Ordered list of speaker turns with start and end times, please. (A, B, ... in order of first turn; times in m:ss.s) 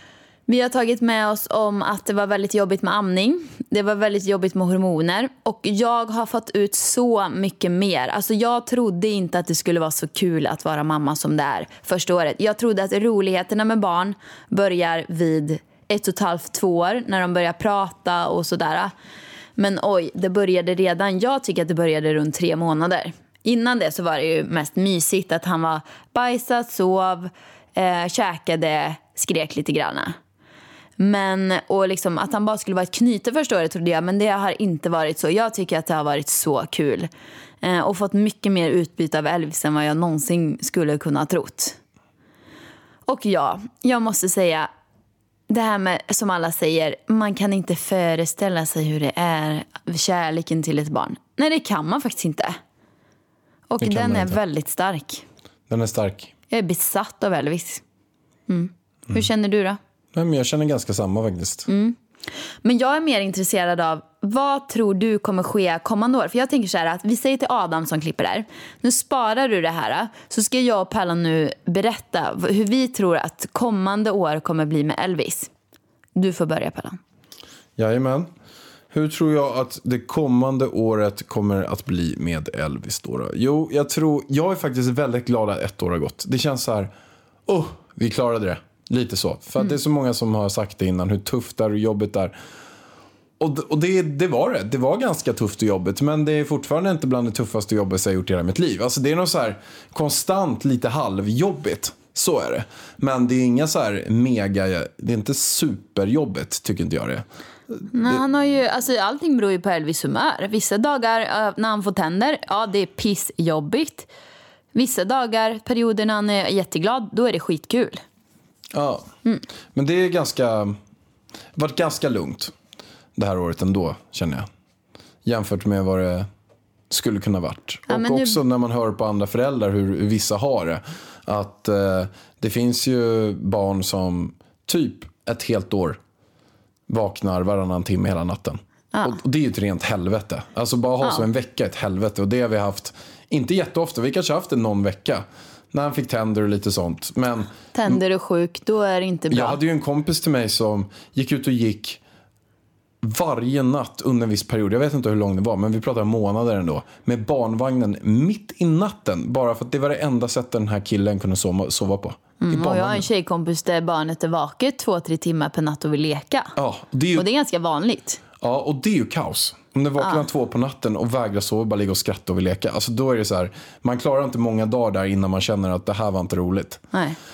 0:00.5-0:18.9 A
0:19.6-0:30.2 A
0:31.0-0:37.1 A
0:37.6-0:41.8 A
0:43.1-0:44.7 A
0:45.5-0:52.6 A
0:53.7-0:55.2 A
0:53.8-0:54.4 B
0:55.7-0:56.3 B
0:56.5-0:57.8 A
0:58.5-0:59.8 A
1:00.1-1:01.7 B
1:01.7-1:02.0 A
1:02.6-1:15.5 A
1:16.2-1:17.0 A
1:17.8-1:18.3 B
1:18.9-1:26.9 B
1:27.4-1:32.3 B
1:33.4-1:47.2 B
1:47.8-1:48.2 B
1:47.9-1:54.1 A
1:54.7-1:58.0 A
1:58.7-1:59.1 B
1:59.7-2:00.8 B
2:01.5-2:02.5 B
2:03.2-2:04.5 B
2:05.2-2:06.3 B
2:06.9-2:16.0 B
2:07.9-2:08.4 A
2:16.9-2:28.0 B
2:27.7-2:29.6 A
2:29.3-2:32.0 B
2:33.0-2:43.1 B
2:42.4-2:46.5 A
2:46.6-2:47.2 B
2:47.1-2:48.2 A
2:48.4-2:56.8 B
2:50.0-2:50.2 A
2:56.9-2:57.2 A